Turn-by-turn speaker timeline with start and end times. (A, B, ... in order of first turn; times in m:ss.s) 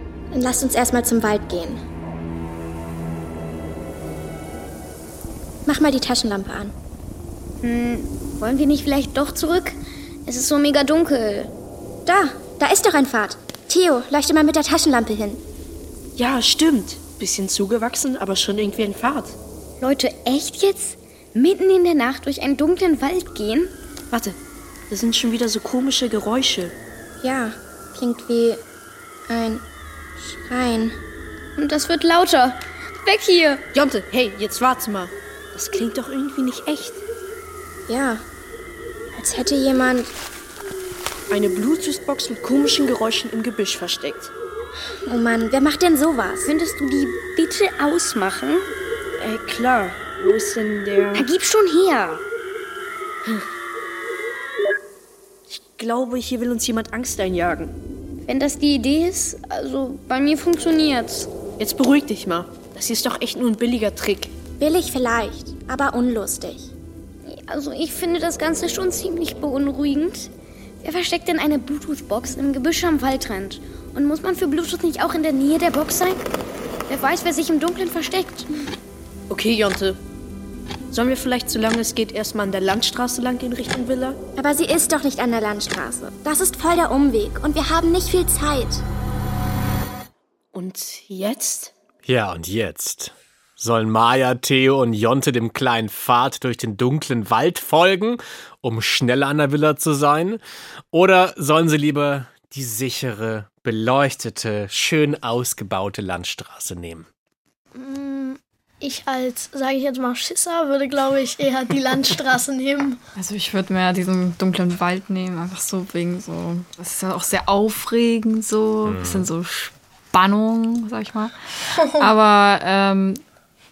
0:00.3-0:01.8 A
0:05.6-0:06.7 A
0:07.6-0:11.5 B
0:12.0-0:15.4 A
0:16.2-0:19.4 C
0:19.8-0:23.7 B
0:24.1-0:24.4 C
0:24.9-0:26.7 C
0:27.2-0:28.6 A
0:29.3-0:29.6 A
0:30.2-0:31.0 A
0:31.6-0:33.6 B
0:33.7-0:37.0 C
0:37.9-0:38.2 A
0:39.1-0:40.1 A
0:41.3-0:44.3 C
0:45.0-0:46.5 A
0:46.4-0:48.7 B
0:49.2-0:51.2 C
0:51.1-0:52.2 B
0:55.5-0:57.7 C
0:58.2-1:01.3 B
1:01.6-1:04.3 C
1:04.6-1:06.7 A
1:07.2-1:10.3 B
1:10.8-1:16.2 B
1:16.9-1:18.5 B
1:19.3-1:20.0 C
1:20.9-1:24.2 C
1:24.4-1:28.8 A
1:30.5-1:31.7 C
1:32.0-1:40.4 D
1:40.9-1:47.1 D
1:47.7-1:53.0 E
1:53.2-2:01.3 F
1:58.8-1:59.3 D
2:01.8-2:02.1 E
2:01.9-2:03.2 F